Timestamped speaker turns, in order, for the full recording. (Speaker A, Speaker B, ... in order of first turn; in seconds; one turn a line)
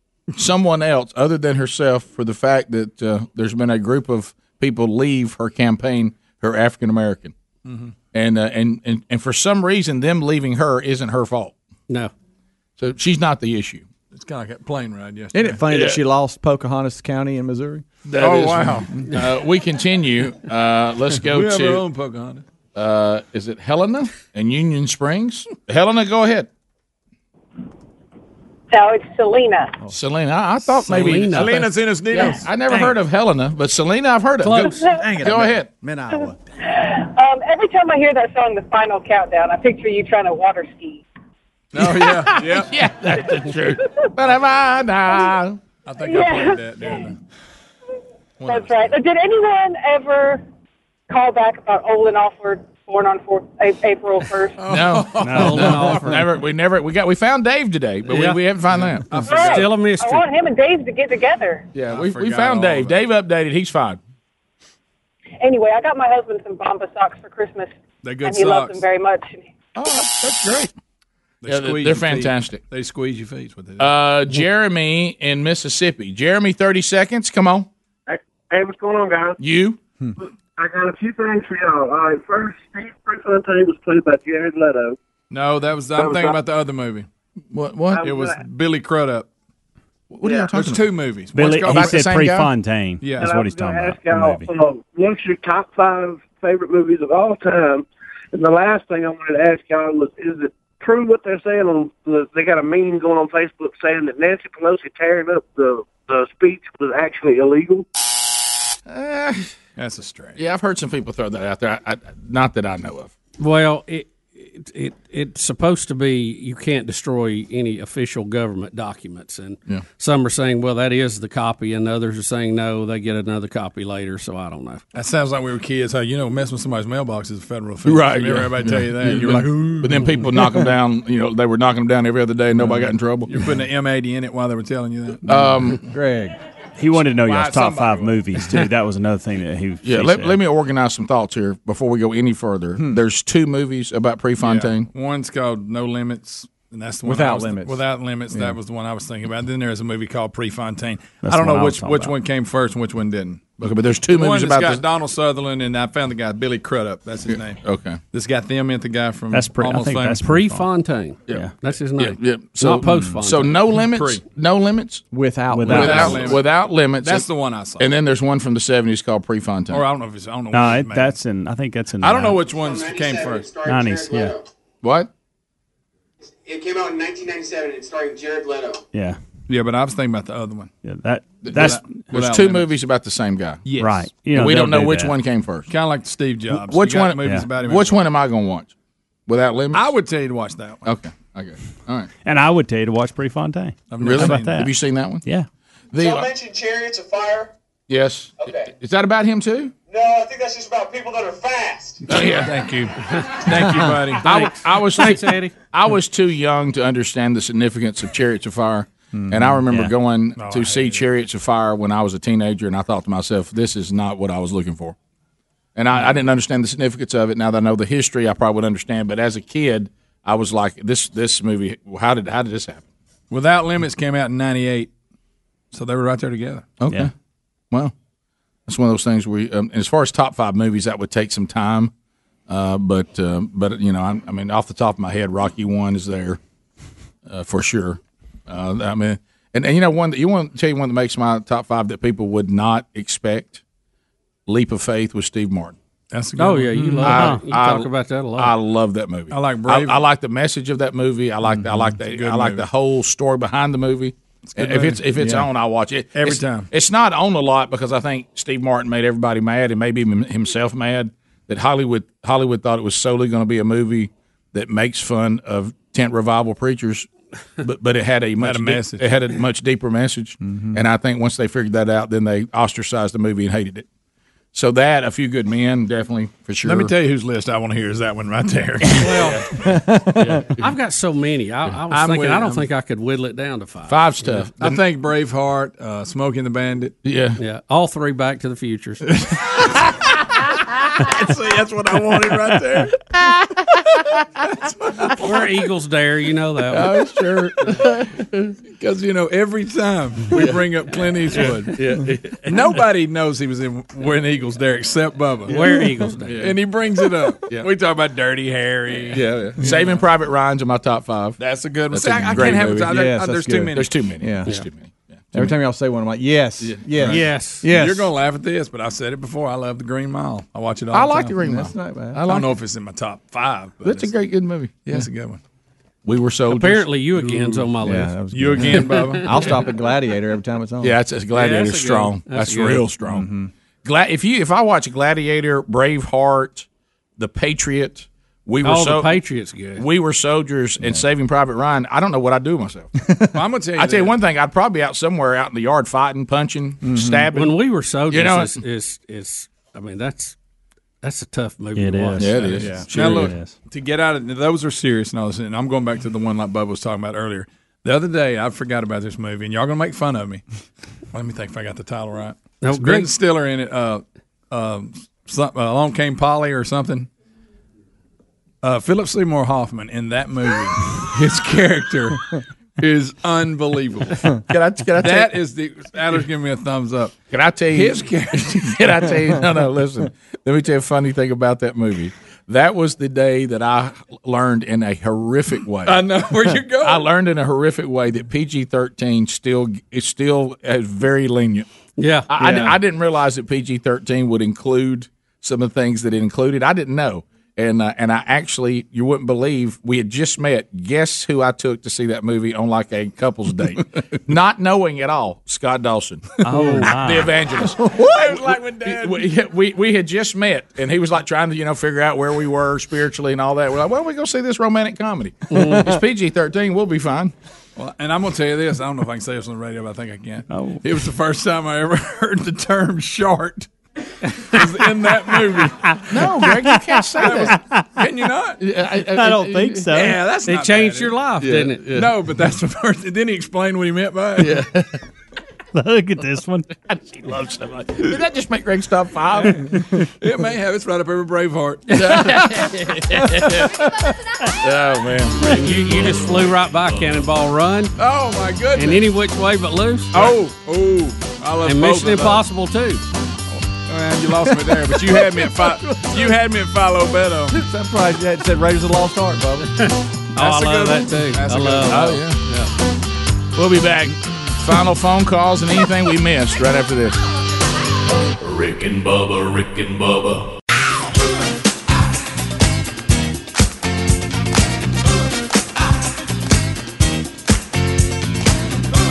Speaker A: 0.3-7.3
Speaker B: 7.6-7.9
Speaker A: 8.1-11.5
Speaker A: 12.8-13.9
Speaker B: 14.1-15.6
Speaker C: 15.3-17.8
Speaker A: 15.7-16.0
Speaker A: 18.1-21.8
Speaker B: 18.2-18.9
Speaker B: 21.2-22.4
Speaker A: 22.7-26.5
Speaker D: 28.7-29.8
Speaker A: 29.9-35.7
Speaker E: 30.9-31.7
Speaker B: 30.9-32.5
Speaker E: 34.4-34.8
Speaker D: 34.8-35.1
Speaker C: 34.9-36.4
Speaker D: 36.1-41.0
Speaker B: 41.7-42.7
Speaker A: 41.8-45.6
Speaker B: 45.9-47.2
Speaker D: 46.1-46.6
Speaker B: 48.4-48.9
Speaker D: 48.5-50.4
Speaker D: 51.1-54.6
Speaker B: 54.6-55.7
Speaker A: 54.6-59.5
Speaker F: 55.2-55.9
Speaker E: 55.3-56.2
Speaker E: 58.1-58.4
Speaker B: 58.8-59.7
Speaker E: 59.3-60.2
Speaker D: 59.3-61.7
Speaker A: 61.7-64.0
Speaker B: 61.9-63.0
Speaker D: 65.4-67.7
Speaker B: 68.0-68.8
Speaker D: 68.2-69.5
Speaker A: 69.8-70.7
Speaker B: 71.4-73.9
Speaker A: 71.5-72.6
Speaker A: 73.8-77.7
Speaker G: 78.1-79.4
Speaker A: 79.4-79.8
Speaker G: 80.6-85.0
Speaker B: 85.3-87.1
Speaker G: 86.0-86.3
Speaker A: 87.5-88.0
Speaker G: 87.9-88.4
Speaker B: 88.0-89.3
Speaker A: 90.1-90.9
Speaker B: 90.5-92.1
Speaker F: 91.3-94.5
Speaker A: 91.4-92.5
Speaker B: 93.0-93.4
Speaker G: 93.2-107.8
Speaker A: 108.9-109.5
Speaker B: 109.8-110.4
Speaker A: 110.3-113.1
Speaker E: 113.4-124.8
Speaker B: 124.9-130.0
Speaker A: 127.8-133.3
Speaker B: 133.3-135.5
Speaker A: 135.3-135.9
Speaker C: 135.9-136.3
Speaker F: 136.8-140.4
Speaker B: 137.3-138.0
Speaker A: 137.4-137.8
Speaker A: 139.8-144.9
Speaker B: 144.4-153.4
Speaker C: 147.0-147.8
Speaker C: 148.3-148.6
Speaker F: 151.2-152.2
Speaker A: 153.6-154.8
Speaker B: 154.1-157.6
Speaker A: 157.3-158.0
Speaker B: 158.1-160.2
Speaker F: 159.3-160.7
Speaker E: 160.2-163.5
Speaker F: 161.3-161.5
Speaker A: 162.0-165.0
Speaker B: 163.9-164.2
Speaker C: 165.1-166.3
Speaker F: 165.5-166.2
Speaker B: 165.7-167.9
Speaker A: 165.7-167.3
Speaker A: 167.8-169.8
Speaker B: 169.7-171.2
Speaker F: 170.5-172.5
Speaker B: 172.0-173.6
Speaker H: 172.5-174.4
Speaker F: 173.6-174.4
Speaker A: 174.8-175.1
Speaker H: 176.4-178.8
Speaker F: 178.9-179.2
Speaker B: 179.5-180.7
Speaker F: 180.8-182.1
Speaker A: 181.4-183.7
Speaker B: 181.5-182.7
Speaker B: 183.6-184.1
Speaker F: 183.7-185.2
Speaker A: 184.3-185.7
Speaker B: 185.7-188.0
Speaker A: 186.7-188.7
Speaker F: 187.2-187.5
Speaker A: 189.3-189.9
Speaker B: 189.7-190.9
Speaker A: 190.8-192.1
Speaker F: 192.2-194.7
Speaker B: 193.9-194.6
Speaker A: 194.0-195.2
Speaker A: 195.9-196.3
Speaker H: 195.9-197.5
Speaker A: 197.9-199.7
Speaker H: 198.4-198.7
Speaker H: 199.9-202.0
Speaker A: 202.1-202.6
Speaker B: 202.1-204.3
Speaker E: 204.2-205.5
Speaker A: 204.2-214.9
Speaker C: 209.1-209.6
Speaker B: 210.4-211.0
Speaker A: 215.8-222.9
Speaker B: 223.3-224.9
Speaker B: 225.7-226.7
Speaker A: 226.8-227.1
Speaker A: 228.7-231.9
Speaker A: 232.5-236.4
Speaker A: 237.2-243.6
Speaker A: 244.5-245.8
Speaker B: 246.1-247.2
Speaker E: 246.4-248.5
Speaker A: 247.0-267.1
Speaker F: 247.1-247.4
Speaker B: 249.3-250.0
Speaker B: 252.0-252.7
Speaker B: 254.5-255.3
Speaker C: 255.2-255.4
Speaker B: 256.1-256.7
Speaker A: 267.6-273.9
Speaker B: 268.4-269.1
Speaker C: 270.4-270.8
Speaker A: 274.5-276.9
Speaker B: 276.6-279.4
Speaker E: 279.0-279.4
Speaker C: 279.6-280.4
Speaker E: 280.2-284.4
Speaker B: 281.9-282.6
Speaker A: 283.9-284.8
Speaker B: 284.6-286.9
Speaker A: 287.0-287.4
Speaker E: 287.4-289.0
Speaker B: 289.2-289.6
Speaker B: 291.0-292.9
Speaker A: 293.2-293.6
Speaker E: 295.2-296.9
Speaker A: 296.7-298.5
Speaker B: 298.7-301.9
Speaker A: 300.3-300.6
Speaker A: 301.3-302.5
Speaker B: 302.4-305.6
Speaker E: 305.5-306.4
Speaker A: 306.3-306.6
Speaker B: 306.4-309.8
Speaker A: 307.4-307.7
Speaker A: 309.1-313.1
Speaker B: 311.4-313.9
Speaker C: 312.9-314.5
Speaker A: 313.7-315.5
Speaker C: 315.3-318.1
Speaker A: 316.6-317.1
Speaker E: 317.0-317.6
Speaker B: 317.6-321.3
Speaker A: 320.9-322.5
Speaker C: 321.4-322.2
Speaker B: 322.2-324.1
Speaker A: 323.8-324.9
Speaker B: 324.8-325.4
Speaker A: 326.0-326.9
Speaker E: 326.5-329.5
Speaker C: 327.8-330.9
Speaker B: 328.3-329.4
Speaker A: 330.8-333.3
Speaker E: 331.3-332.8
Speaker C: 333.0-333.5
Speaker A: 333.8-336.6
Speaker A: 337.2-339.1
Speaker E: 338.6-339.8
Speaker A: 339.8-342.9
Speaker B: 343.3-344.1
Speaker A: 343.8-347.6
Speaker C: 346.8-347.3
Speaker E: 347.3-350.4
Speaker A: 348.1-348.6
Speaker E: 351.0-352.6
Speaker F: 351.8-352.5
Speaker A: 352.2-353.3
Speaker C: 352.6-352.9
Speaker B: 352.9-360.4
Speaker F: 353.0-353.6
Speaker B: 361.1-367.1
Speaker E: 362.6-363.1
Speaker B: 368.6-372.2
Speaker B: 372.8-374.3
Speaker A: 374.5-375.3
Speaker B: 375.0-377.1
Speaker A: 377.3-378.1
Speaker B: 377.7-378.8
Speaker A: 378.6-386.1
Speaker B: 385.9-387.1
Speaker A: 386.8-391.7
Speaker E: 392.0-392.3
Speaker A: 392.3-417.3
Speaker C: 392.4-392.7
Speaker F: 406.4-407.4
Speaker B: 407.9-409.3
Speaker E: 415.5-415.9
Speaker B: 417.8-423.7
Speaker F: 420.5-420.9
Speaker B: 424.5-425.8
Speaker A: 426.1-427.6
Speaker F: 426.4-427.8
Speaker B: 427.2-428.6
Speaker A: 428.6-429.9
Speaker F: 429.1-430.2
Speaker B: 429.9-431.1
Speaker E: 430.4-431.8
Speaker A: 431.4-432.1
Speaker B: 431.9-434.6
Speaker A: 434.4-435.0
Speaker F: 435.7-436.7
Speaker A: 436.9-439.7
Speaker B: 440.2-442.2
Speaker A: 442.0-443.9
Speaker A: 444.6-445.6
Speaker E: 445.4-447.9
Speaker B: 448.0-449.1
Speaker E: 448.7-450.3
Speaker B: 450.1-452.4
Speaker E: 451.6-453.0
Speaker B: 453.9-457.6
Speaker C: 457.5-459.7
Speaker B: 460.4-462.1
Speaker E: 460.4-462.7
Speaker A: 461.9-462.4
Speaker A: 463.6-467.2
Speaker I: 468.4-470.5